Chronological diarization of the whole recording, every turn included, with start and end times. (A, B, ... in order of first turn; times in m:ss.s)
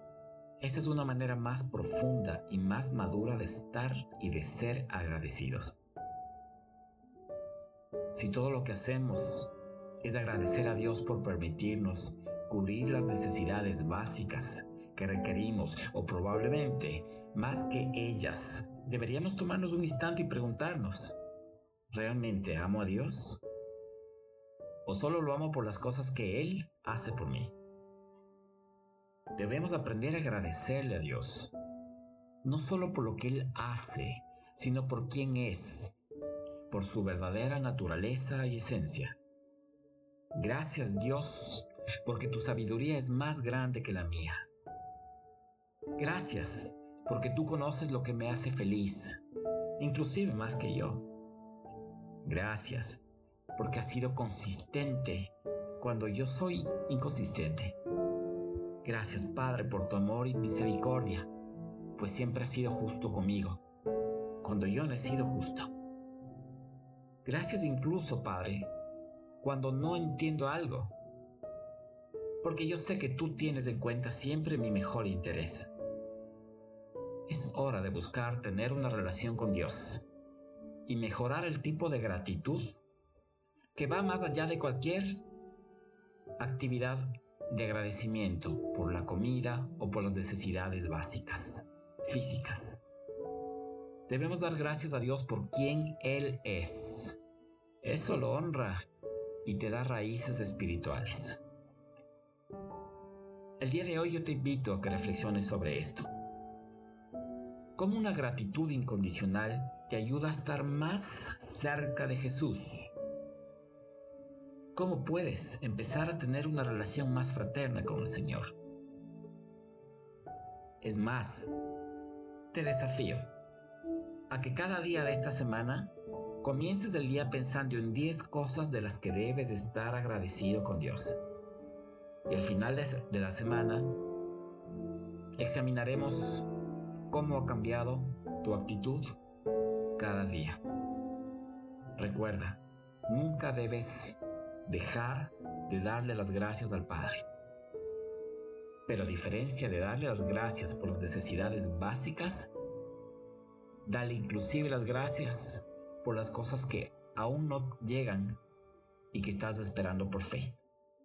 0:00.6-0:05.8 A
0:08.1-0:21.2 A
0:21.9-0:23.4 A
0:24.8-0:27.5 A
0:29.4-0:31.5 A
0:32.4-0:36.0 A
0:36.7-0:39.2 A
0:40.3-0:44.5 A
0:46.0-0:49.2 A
0:49.8-0:51.1 A
0:52.2-0:53.0 A
0:53.6-0:57.8 A
0:58.8-1:01.3 A
1:02.0-1:03.6 A
1:04.4-1:05.7 A
1:07.2-1:08.7 A
1:09.4-1:10.9 A
1:12.4-1:15.7 A
1:17.3-1:20.0 A
1:20.9-1:22.8 A
1:23.7-1:25.2 A
1:26.4-1:32.8 A
1:34.1-1:37.2 A
1:37.8-1:38.8 A
1:39.4-1:41.4 A
1:43.6-1:46.1 A
1:47.8-1:52.9 A
1:54.7-1:58.5 A
2:00.8-2:01.5 A
2:02.5-2:03.3 A
2:04.3-2:11.2 A
2:12.3-2:14.0 A
2:15.4-2:16.5 A
2:17.1-2:19.2 A
2:20.0-2:20.6 A
2:22.0-2:27.2 A
2:28.9-2:32.5 A
2:33.8-2:38.4 A
2:39.1-2:40.6 A